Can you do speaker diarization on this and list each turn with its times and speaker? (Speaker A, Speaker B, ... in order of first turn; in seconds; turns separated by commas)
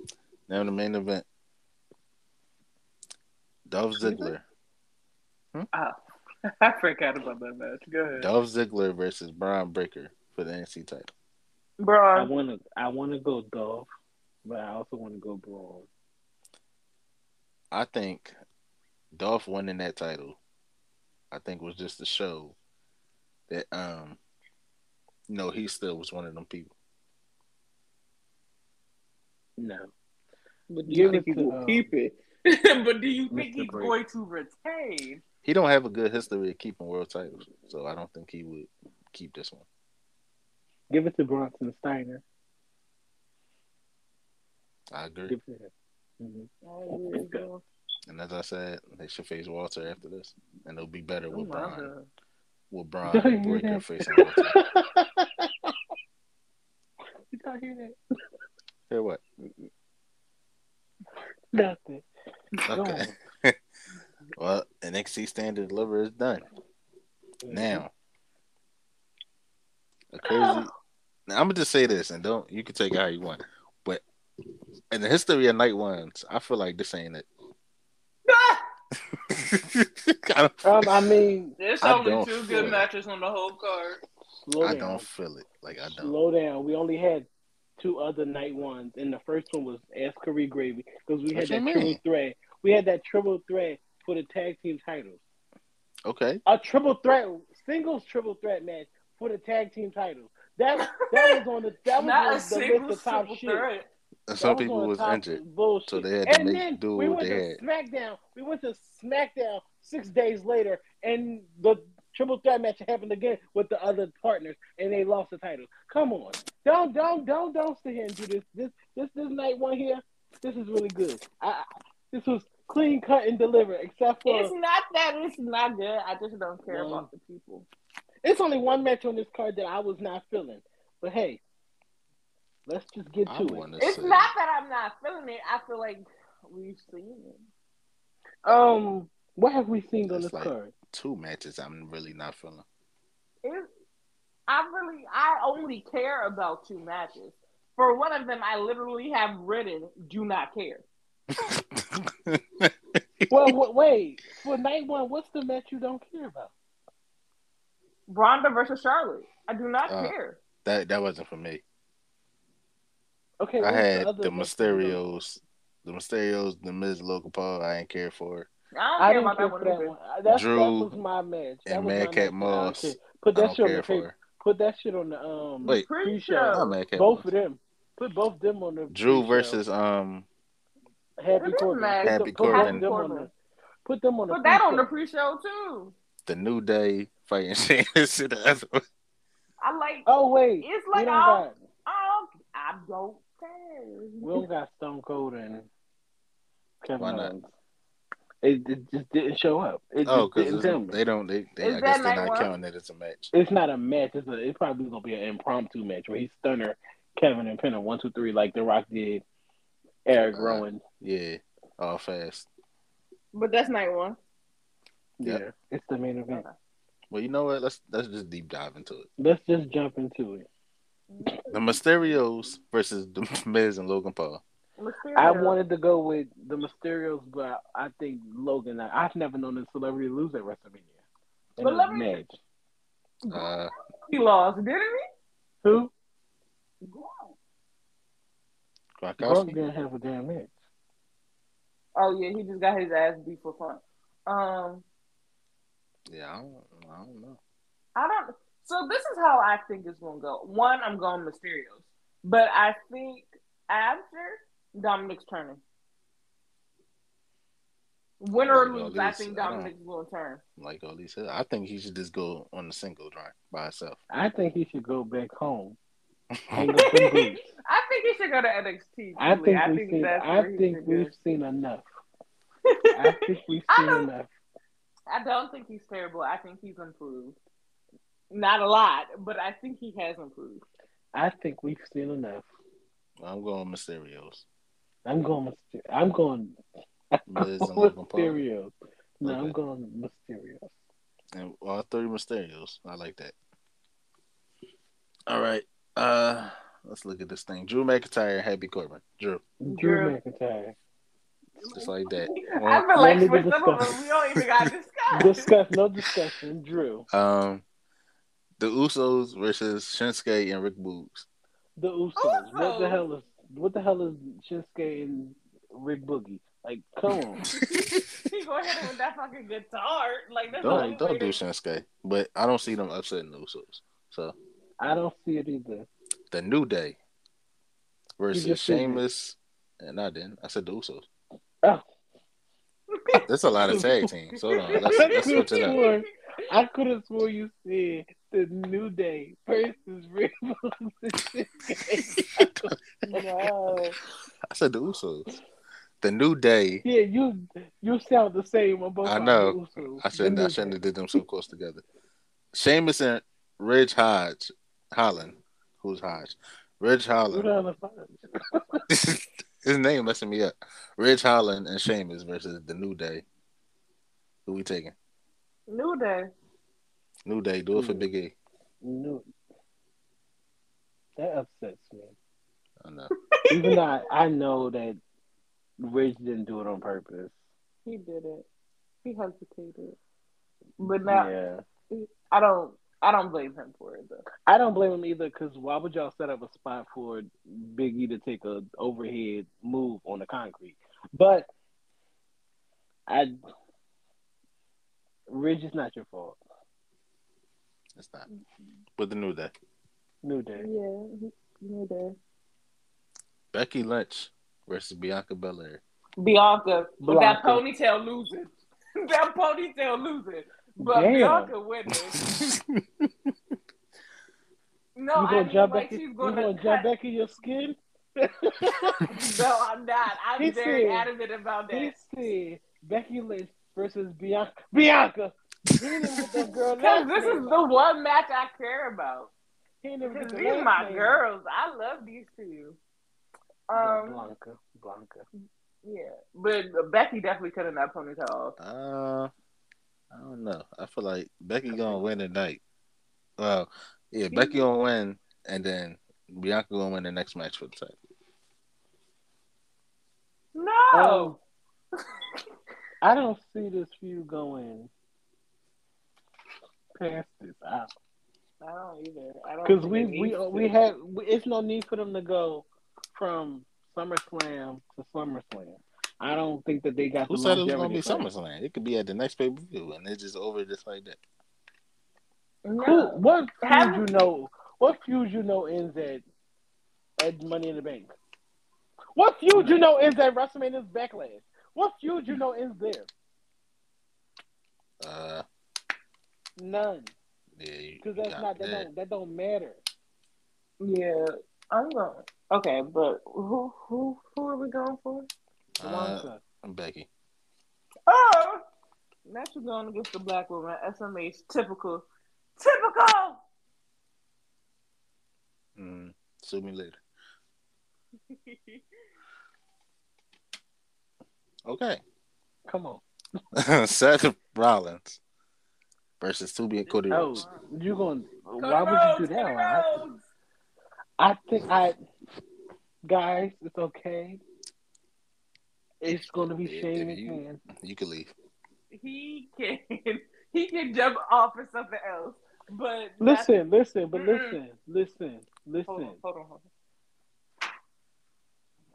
Speaker A: 0.5-1.3, Speaker A: 3.7-4.4, Speaker B: 4.0-4.3, Speaker B: 5.7-8.3, Speaker A: 8.2-11.1, Speaker B: 11.8-12.3, Speaker C: 12.1-13.9, Speaker C: 14.4-15.9, Speaker A: 17.7-18.4, Speaker A: 19.1-20.4, Speaker A: 21.3-22.6, Speaker A: 23.5-24.2, Speaker A: 25.3-26.7, Speaker C: 29.6-29.9, Speaker B: 30.7-35.2, Speaker C: 30.9-31.9, Speaker C: 33.3-34.0, Speaker A: 35.4-39.7, Speaker C: 40.9-42.2, Speaker A: 44.9-45.4, Speaker C: 45.3-46.5, Speaker B: 46.6-47.6, Speaker C: 47.1-47.4, Speaker A: 48.1-51.9, Speaker B: 51.3-52.1, Speaker A: 52.7-54.6, Speaker C: 53.1-55.7, Speaker C: 57.3-58.0, Speaker A: 58.9-59.2, Speaker C: 61.5-62.1, Speaker A: 62.7-63.6, Speaker C: 62.7-63.1, Speaker A: 64.4-66.4, Speaker C: 67.4-67.8, Speaker A: 67.5-67.9, Speaker A: 70.1-70.7, Speaker B: 70.2-70.7, Speaker A: 71.3-74.0, Speaker A: 74.9-77.3, Speaker B: 78.3-78.6, Speaker A: 79.3-81.1, Speaker C: 80.6-81.6, Speaker B: 81.6-84.0, Speaker A: 81.8-82.9, Speaker C: 82.5-82.8, Speaker C: 84.4-85.0, Speaker A: 84.6-86.1, Speaker C: 85.8-87.3, Speaker C: 87.8-95.2, Speaker A: 91.3-92.0, Speaker A: 96.0-96.4, Speaker C: 96.5-103.7, Speaker B: 100.8-101.4, Speaker B: 102.0-103.9, Speaker A: 104.3-107.6, Speaker C: 104.4-124.5, Speaker B: 124.2-127.7, Speaker C: 126.7-127.1, Speaker C: 128.2-131.4, Speaker C: 132.7-133.7, Speaker A: 133.3-134.3, Speaker B: 133.8-137.5, Speaker C: 138.4-140.7, Speaker A: 140.0-142.6, Speaker B: 144.5-150.8, Speaker A: 151.4-152.7, Speaker C: 153.3-156.5, Speaker B: 158.1-160.4, Speaker A: 159.9-161.6, Speaker C: 163.4-165.0, Speaker A: 163.6-168.5, Speaker B: 168.7-169.9, Speaker C: 169.0-179.6, Speaker A: 170.3-171.0, Speaker A: 171.7-174.1, Speaker B: 175.6-176.8, Speaker A: 176.5-177.3, Speaker A: 178.9-180.3, Speaker C: 181.2-183.3, Speaker B: 181.4-183.3, Speaker A: 182.0-182.9, Speaker C: 183.8-184.9, Speaker B: 184.3-185.9, Speaker A: 186.3-188.8, Speaker B: 189.6-190.1, Speaker C: 190.1-191.5, Speaker B: 190.6-194.5, Speaker C: 194.2-195.7, Speaker C: 196.8-197.5, Speaker A: 197.0-197.3, Speaker C: 198.4-201.0, Speaker A: 200.1-203.3, Speaker B: 201.6-202.5, Speaker C: 203.3-209.2, Speaker C: 210.1-210.8, Speaker A: 210.1-212.5, Speaker B: 213.3-214.2, Speaker C: 215.2-216.4, Speaker A: 217.1-219.1, Speaker C: 219.2-220.5, Speaker B: 221.1-222.1, Speaker A: 221.5-224.4, Speaker B: 224.8-225.6, Speaker C: 225.1-230.9, Speaker C: 231.6-232.4, Speaker B: 231.6-232.2, Speaker B: 233.2-235.0, Speaker A: 233.3-233.7, Speaker C: 235.6-235.9, Speaker B: 236.8-237.3, Speaker A: 239.0-239.6, Speaker C: 239.2-240.5, Speaker B: 241.9-244.8, Speaker A: 246.1-247.4, Speaker B: 247.9-255.6, Speaker B: 258.2-260.4, Speaker A: 258.3-259.7, Speaker A: 260.6-264.0, Speaker C: 264.1-265.8, Speaker A: 266.3-266.7, Speaker C: 266.5-267.5, Speaker B: 266.8-271.1, Speaker C: 269.2-271.9, Speaker B: 272.7-274.1, Speaker C: 272.9-274.3, Speaker B: 275.1-277.4, Speaker B: 278.3-280.6, Speaker C: 281.1-282.5, Speaker A: 283.2-284.4, Speaker C: 285.1-286.6, Speaker C: 287.1-290.7, Speaker A: 287.3-288.4, Speaker A: 289.2-289.6, Speaker A: 291.3-293.4, Speaker A: 295.3-299.4, Speaker C: 299.6-300.8, Speaker B: 299.7-300.2, Speaker B: 301.6-305.5, Speaker A: 301.7-302.9, Speaker C: 302.9-304.0, Speaker C: 305.1-307.1, Speaker A: 307.1-307.6, Speaker A: 308.6-311.3, Speaker C: 311.8-317.4, Speaker B: 312.2-313.0, Speaker A: 317.4-318.0, Speaker B: 317.6-321.4, Speaker A: 320.6-324.4, Speaker C: 320.6-321.0, Speaker C: 324.8-325.9, Speaker A: 326.3-327.0, Speaker A: 328.2-331.1, Speaker C: 328.3-329.0, Speaker B: 332.9-333.8, Speaker A: 333.3-335.8, Speaker C: 333.6-334.1, Speaker B: 334.5-336.0, Speaker C: 335.0-343.3, Speaker A: 342.0-342.6, Speaker B: 343.1-344.0, Speaker A: 344.5-345.4, Speaker A: 346.0-346.8, Speaker C: 346.8-350.8, Speaker A: 349.0-351.8, Speaker A: 352.5-357.5, Speaker C: 357.3-358.8, Speaker A: 358.9-363.2, Speaker A: 364.5-364.9, Speaker B: 365.7-366.3, Speaker A: 367.3-368.4, Speaker C: 367.7-368.1, Speaker C: 368.8-369.3, Speaker C: 371.2-372.1, Speaker A: 372.8-373.1, Speaker B: 373.3-373.8, Speaker C: 373.5-375.0, Speaker C: 375.8-377.4, Speaker B: 377.9-378.5, Speaker B: 379.0-380.0, Speaker B: 380.8-381.3, Speaker C: 381.1-381.6, Speaker B: 381.9-384.3, Speaker C: 384.5-391.5, Speaker C: 393.1-393.4, Speaker C: 395.3-396.4, Speaker A: 398.0-398.3, Speaker A: 399.0-399.5, Speaker C: 400.2-400.7, Speaker B: 400.6-402.2, Speaker A: 403.5-405.8, Speaker B: 406.2-412.2, Speaker C: 407.0-407.6, Speaker C: 410.8-411.5, Speaker A: 411.9-413.1, Speaker B: 415.0-416.9, Speaker C: 415.1-419.1, Speaker B: 418.8-421.9, Speaker C: 420.4-421.1, Speaker C: 421.7-427.6, Speaker B: 426.8-429.3, Speaker C: 429.8-431.2, Speaker B: 430.1-432.8, Speaker B: 433.7-434.3, Speaker C: 433.8-435.2, Speaker B: 435.8-438.6, Speaker A: 438.6-439.3, Speaker A: 440.1-442.6, Speaker C: 441.7-442.0, Speaker A: 443.4-448.0, Speaker B: 444.3-444.6, Speaker B: 450.6-451.4, Speaker C: 450.9-451.4, Speaker C: 453.0-454.9, Speaker C: 456.9-457.9, Speaker B: 458.6-460.7, Speaker C: 459.6-468.3, Speaker A: 467.3-471.2, Speaker B: 472.6-474.1, Speaker C: 472.8-476.2, Speaker C: 477.2-478.1, Speaker C: 479.1-483.1, Speaker A: 485.0-485.4, Speaker C: 486.6-487.1, Speaker A: 487.6-488.9, Speaker C: 488.0-489.8, Speaker B: 490.8-495.3, Speaker A: 495.8-497.1, Speaker C: 495.8-496.4, Speaker B: 498.1-498.6, Speaker B: 499.3-502.1, Speaker B: 502.6-503.4, Speaker A: 505.8-507.0, Speaker B: 508.3-508.8, Speaker A: 511.7-512.0, Speaker C: 512.7-513.0, Speaker A: 513.5-515.2, Speaker A: 516.2-517.5, Speaker B: 516.9-517.7, Speaker C: 517.1-520.0, Speaker B: 518.6-520.2, Speaker C: 521.2-522.0, Speaker C: 523.0-524.4, Speaker C: 526.0-527.6, Speaker A: 526.6-528.3, Speaker B: 528.9-533.5, Speaker C: 533.2-536.2, Speaker B: 534.1-534.6, Speaker B: 535.9-536.6